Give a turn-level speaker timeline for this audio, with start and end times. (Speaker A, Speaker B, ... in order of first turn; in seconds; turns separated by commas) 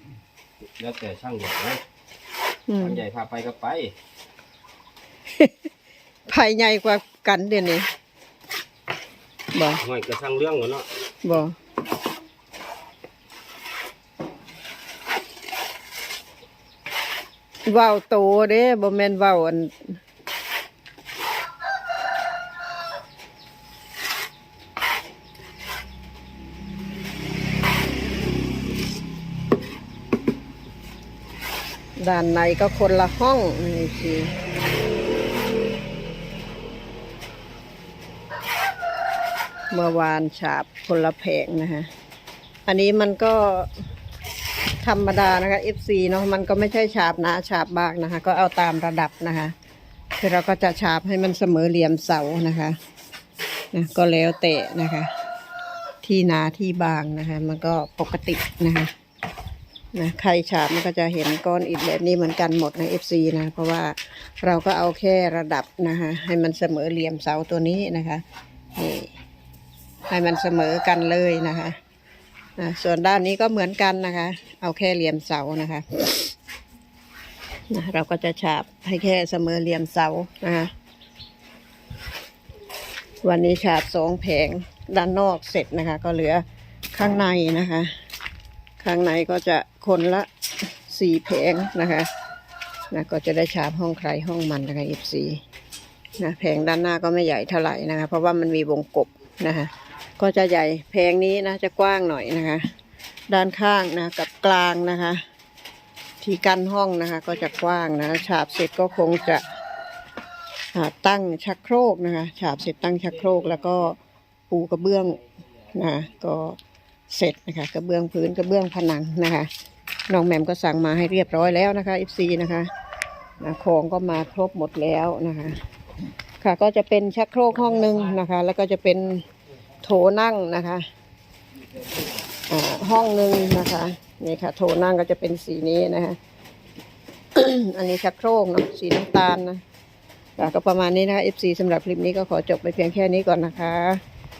Speaker A: 0.8-1.8, Speaker B: 2.7-3.0, Speaker A: 2.8-3.9, Speaker B: 6.3-7.9, Speaker B: 9.5-9.8, Speaker A: 9.8-10.9, Speaker B: 11.2-11.6, Speaker B: 17.6-20.0, Speaker B: 32.0-34.3, Speaker B: 39.7-41.9, Speaker B: 42.6-43.8, Speaker B: 44.8-49.5, Speaker B: 50.2-52.8, Speaker B: 53.7-55.1, Speaker B: 56.0-58.9, Speaker B: 59.9-68.2, Speaker B: 68.8-69.1, Speaker B: 70.1-71.8, Speaker B: 72.6-76.3, Speaker B: 77.7-80.7, Speaker B: 83.2-87.9, Speaker B: 88.8-92.1, Speaker B: 92.9-95.4, Speaker B: 96.2-102.7, Speaker B: 103.3-105.2, Speaker B: 106.2-109.5, Speaker B: 110.7-114.0, Speaker B: 114.5-116.6, Speaker B: 117.1-119.5, Speaker B: 120.1-122.7, Speaker B: 123.4-125.6, Speaker B: 126.4-129.2, Speaker B: 129.8-130.8, Speaker B: 132.5-136.2, Speaker B: 137.3-139.6, Speaker B: 140.4-144.0